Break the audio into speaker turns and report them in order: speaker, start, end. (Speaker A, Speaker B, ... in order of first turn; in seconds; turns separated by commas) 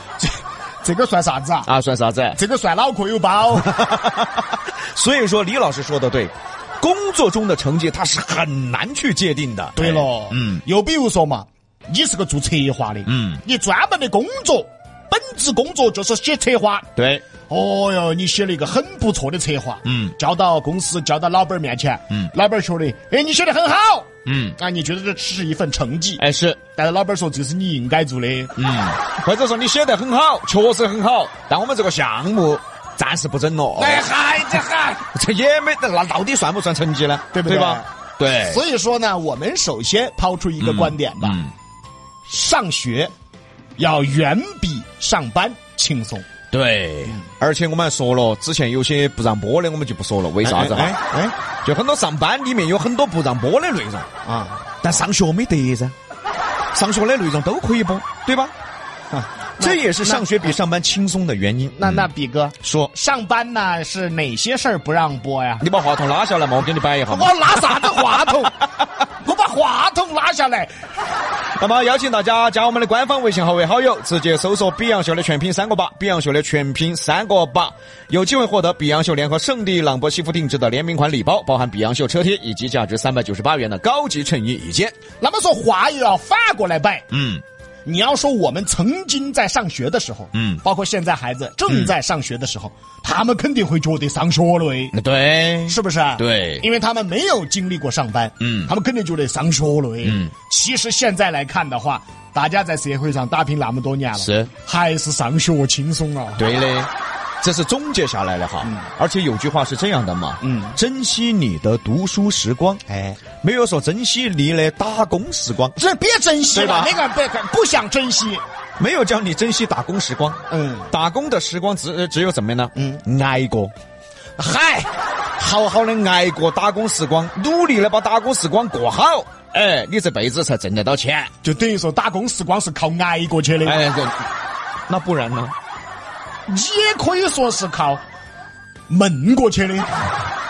Speaker A: 0.2-1.7, Speaker B: 1.6-2.4, Speaker A: 2.4-3.7, Speaker B: 3.6-10.6, Speaker A: 9.8-16.9, Speaker B: 13.1-13.4, Speaker B: 16.9-17.2, Speaker A: 17.5-26.2, Speaker B: 19.9-20.1, Speaker B: 24.2-24.6, Speaker B: 26.2-26.6, Speaker A: 26.8-28.5, Speaker B: 28.6-34.1, Speaker A: 33.8-35.0, Speaker B: 35.0-38.6, Speaker A: 37.3-41.4, Speaker B: 40.6-41.5, Speaker A: 42.3-43.1, Speaker A: 43.8-46.2, Speaker B: 46.5-51.0, Speaker A: 50.4-51.3, Speaker B: 51.6-54.1, Speaker A: 54.2-54.6, Speaker B: 54.8-55.9, Speaker B: 56.7-58.5, Speaker A: 59.1-60.5, Speaker B: 59.6-62.1, Speaker A: 61.8-65.6, Speaker B: 62.6-62.9, Speaker B: 65.6-68.4, Speaker A: 67.1-68.6, Speaker A: 69.2-70.7, Speaker B: 71.5-84.9, Speaker A: 85.2-87.0, Speaker B: 87.1-87.4, Speaker A: 87.8-94.9, Speaker B: 90.3-90.6, Speaker B: 94.9-96.7, Speaker A: 95.7-106.5, Speaker B: 98.4-98.7, Speaker B: 100.0-100.3, Speaker B: 104.2-104.5, Speaker B: 106.4-106.9, Speaker B: 107.4-112.8, Speaker A: 110.4-110.8, Speaker A: 112.9-113.2, Speaker B: 113.4-115.8, Speaker A: 115.8-118.4, Speaker B: 116.5-116.9, Speaker B: 118.8-123.7, Speaker A: 120.5-120.9, Speaker A: 122.8-123.0, Speaker A: 124.4-124.9, Speaker B: 125.4-131.3, Speaker A: 131.4-133.8, Speaker B: 133.6-134.3, Speaker B: 134.9-135.5, Speaker A: 136.5-138.0, Speaker A: 138.9-140.1